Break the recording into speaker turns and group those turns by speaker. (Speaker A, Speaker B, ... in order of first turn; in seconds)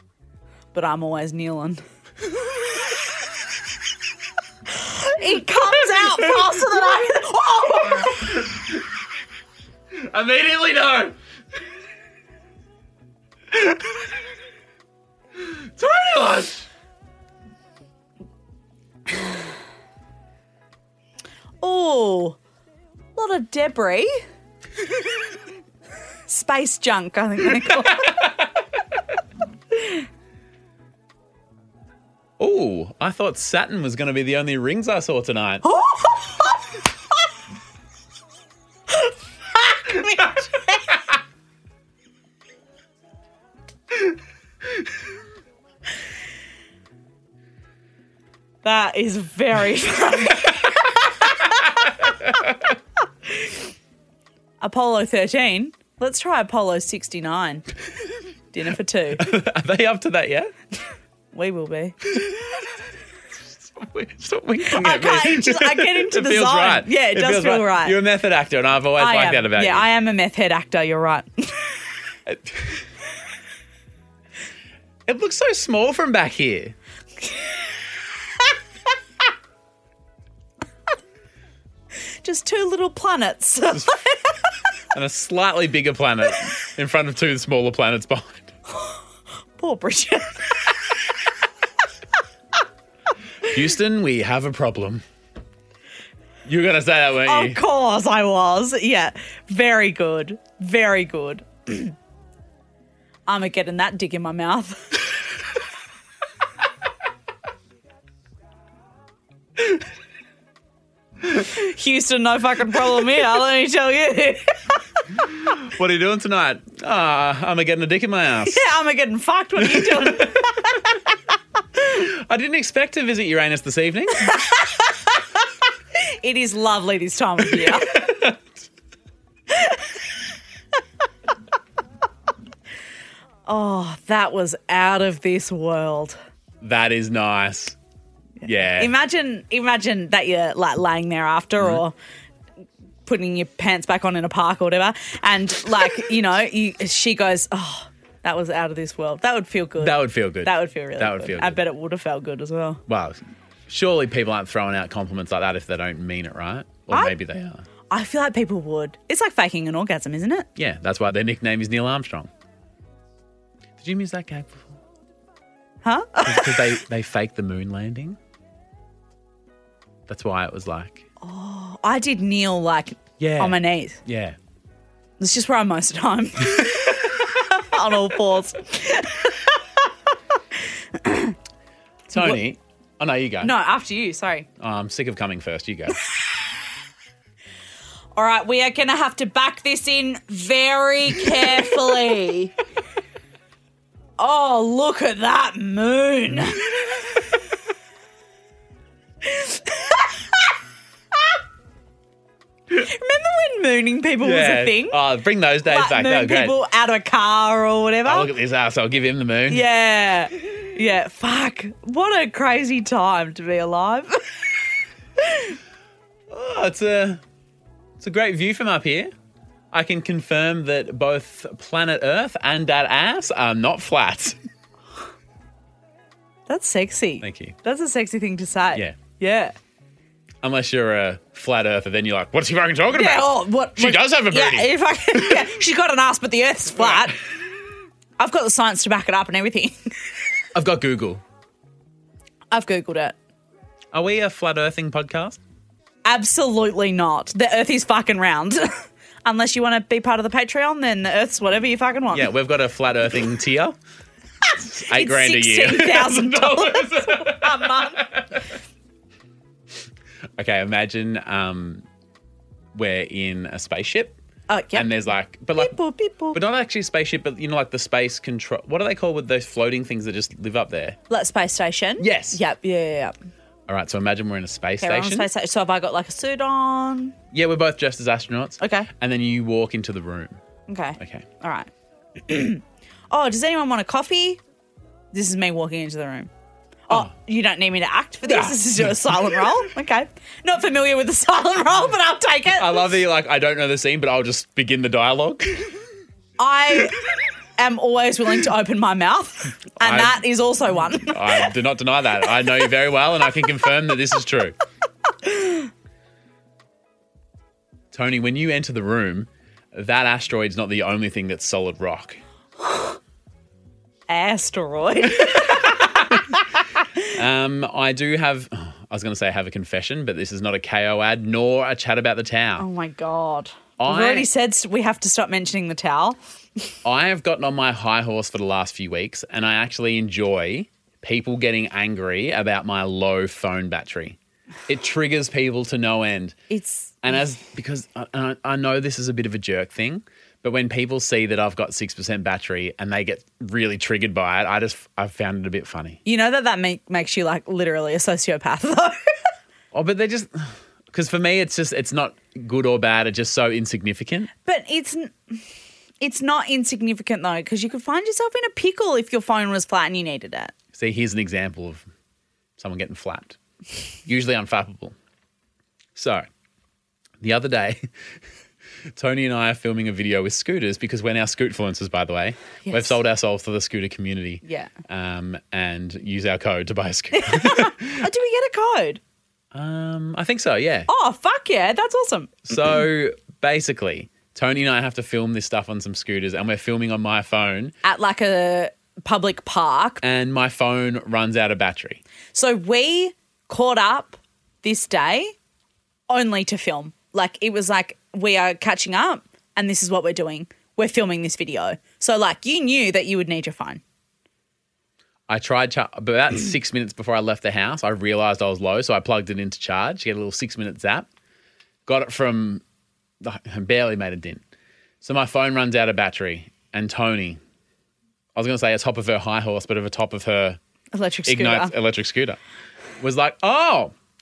Speaker A: 0.7-1.8, 4.7-8.4, 21.6-22.4, 23.1-24.1, 26.3-28.3, 35.6-36.7, 38.9-41.0, 48.6-51.9, 54.6-57.7, 58.5-59.3, 61.3-62.0, 64.6-68.0, 69.0-71.8, 82.2-84.4, 89.6-90.7, 97.2-101.9, 103.3-105.0, 111.2-114.8, 118.4-121.0, 124.4-124.8, 126.0-128.1, 129.5-129.8, 133.5-136.2, 138.4-141.9, 143.1-152.8, 157.9-160.5, 165.8-166.8, 171.2-174.0, 175.2-179.6, 180.9-181.3, 183.4-184.5, 188.2-192.5, 194.2-197.1, 199.2-200.4, 202.7-205.0, 205.7-208.3, 209.5-214.6, 215.2-215.6, 226.5-229.5, 232.9-237.2, 238.2-239.8, 242.5-243.2, 246.0-252.3, 254.5-258.1, 264.5-264.9, 265.6-266.4, 271.1-273.1, 274.8-277.1, 278.6-278.9, 280.7-281.7, 282.3-284.4, 285.1-286.3, 286.9-292.9, 296.4-297.1, 297.6-301.5, 305.2-305.7, 314.1-316.2, 322.6-326.2, 336.5-337.0, 346.0-349.0, 354.4-355.4, 356.0-360.5, 372.6-372.9, 374.4-374.7, 377.1-379.0, 380.9-382.5, 387.8-390.0, 392.3-395.3, 396.1-403.8, 420.9-421.7
Speaker B: 5.6-6.4, 8.0-8.8, 9.9-11.1, 13.5-13.8, 15.4-16.7, 32.4-35.6, 52.1-52.5, 59.2-60.5, 62.1-62.8, 63.5-69.9, 72.3-72.8, 75.0-76.7, 84.9-88.5, 93.4-95.0, 96.4-97.6, 115.2-118.6, 119.6-120.4, 121.8-124.4, 127.6-128.4, 136.6-137.8, 138.4-138.9, 149.8-151.6, 152.9-157.6, 160.6-162.3, 163.8-164.8, 166.2-168.2, 170.1-171.0, 173.2-174.4, 182.1-183.5, 184.6-186.0, 204.2-206.5, 208.0-209.7, 216.3-217.2, 218.0-219.1, 219.7-224.4, 227.2-227.6, 230.4-235.5, 240.5-241.2, 243.9-245.4, 252.1-253.8, 254.7-258.5, 260.4-261.8, 262.7-264.2, 264.7-265.7, 266.3-271.0, 272.0-272.4, 273.7-275.3, 277.3-280.4, 281.0-281.3, 288.2-289.4, 292.5-295.8, 299.8-300.2, 300.9-304.5, 307.9-312.2, 315.3-316.2, 317.1-322.7, 323.8-324.3, 326.8-336.4, 337.0-346.0, 349.7-354.3, 360.7-361.9, 362.6-363.4, 364.1-364.9, 365.9-366.3, 367.2-367.9, 368.9-378.0, 379.5-380.9, 382.5-387.7, 390.0-392.0, 405.3-411.1, 411.9-412.6, 413.2-414.4, 415.0-417.4, 418.3-420.6, 421.2-422.4, 423.0-423.9